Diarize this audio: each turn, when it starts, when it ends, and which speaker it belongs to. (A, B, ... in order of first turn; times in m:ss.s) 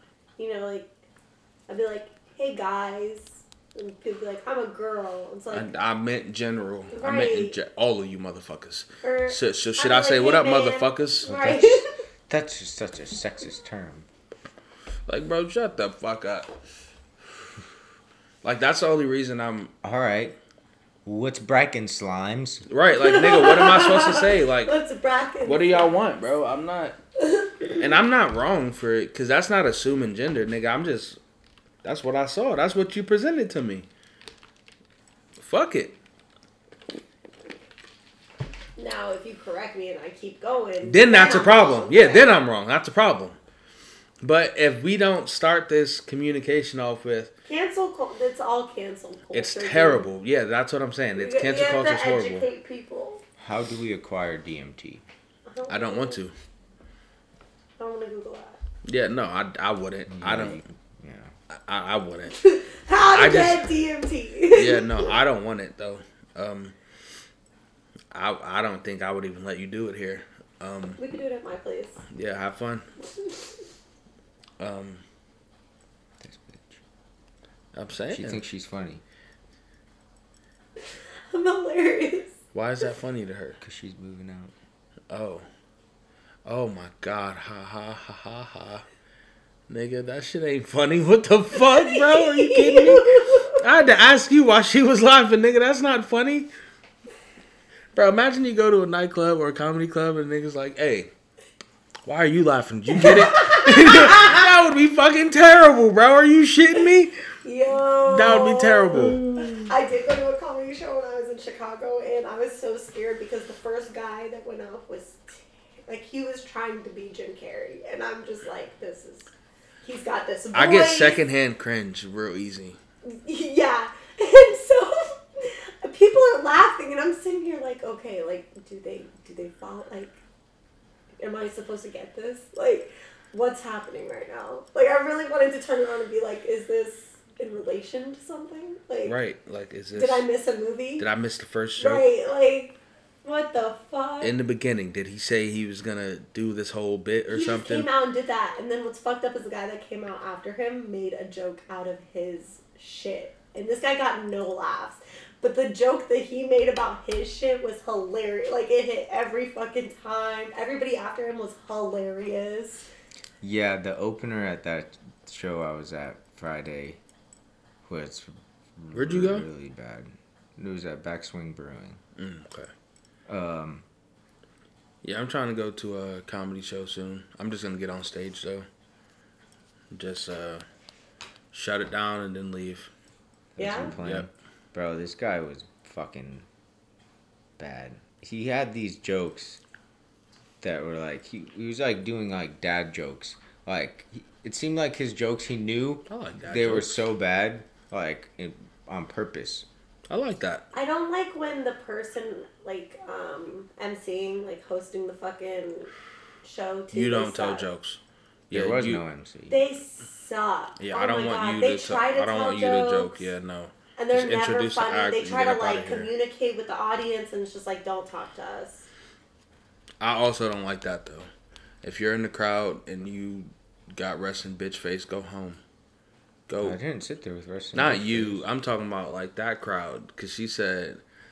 0:00.4-0:00.9 A
0:01.7-0:05.7 A
0:05.5-0:11.4 B
0:06.9-0:07.6 A
0:09.0-0:11.8 A
0:11.3-0:14.1 C
0:15.1-0:16.5 B
0:18.4-0:19.7 B
0:19.8-0:20.4 C
0:21.0-0:22.6 C
0:22.7-0:24.7 B
0:22.9-0:26.0 A
0:25.4-0:27.0 B
0:27.2-0:27.8 A
0:27.7-0:31.2 B
0:31.8-0:33.9 B
0:35.4-0:35.9 B
0:38.8-0:42.4 A
0:40.8-0:43.4 B
0:44.2-0:47.3 B
0:47.5-0:50.1 A
0:49.3-0:52.5 B
0:51.1-0:53.2 A
0:53.4-0:55.0 C
0:55.5-0:56.2 A
0:55.7-0:56.3 B
0:57.8-0:58.6 A
0:58.8-1:00.6 B
1:00.1-1:01.3 C
1:01.5-1:02.4 B
1:02.3-1:05.2 A
1:03.1-1:03.7 B
1:04.5-1:06.7 B
1:08.1-1:11.0 B
1:11.0-1:12.0 A
1:12.1-1:12.8 B
1:14.6-1:15.0 B
1:16.2-1:16.8 C
1:17.7-1:18.4 B
1:18.1-1:19.0 C
1:21.3-1:22.3 A
1:22.5-1:23.6 B
1:23.6-1:24.5 C
1:25.1-1:25.4 B
1:26.4-1:28.8 B
1:29.7-1:36.5 B
1:31.6-1:33.6 A
1:37.9-1:41.1 B
1:42.0-1:47.1 B
1:42.9-1:44.4 A
1:47.4-2:01.2 A
1:48.1-1:49.7 B
1:48.9-1:49.2 C
2:00.5-2:02.8 B
2:03.0-2:10.2 A
2:11.2-2:19.2 A
2:19.0-2:20.3 B
2:20.0-2:21.0 A
2:21.0-2:22.0 B
2:21.8-2:24.3 A
2:24.2-2:27.9 B
2:27.3-2:42.8 A
2:43.4-2:47.0 C
2:47.8-2:52.0 C
2:48.9-2:49.4 B
2:52.2-2:52.7 B
2:53.3-2:53.8 C
2:55.0-2:58.6 B
2:59.9-3:00.6 B
3:01.5-3:02.9 B
3:03.6-3:06.4 C
3:03.6-3:03.9 A
3:03.8-3:04.3 B
3:07.6-3:09.6 C
3:10.6-3:19.6 C
3:16.1-3:17.0 B
3:20.1-3:20.6 B
3:20.7-3:25.9 A
3:26.4-3:27.7 A
3:26.9-3:29.0 B
3:28.5-3:29.6 C
3:29.5-3:33.3 A
3:30.8-3:36.1 B
3:34.0-3:38.9 A
3:40.0-3:41.3 B
3:41.8-3:45.6 B
3:46.5-3:46.8 B
3:46.6-3:48.4 C
3:47.7-3:51.0 B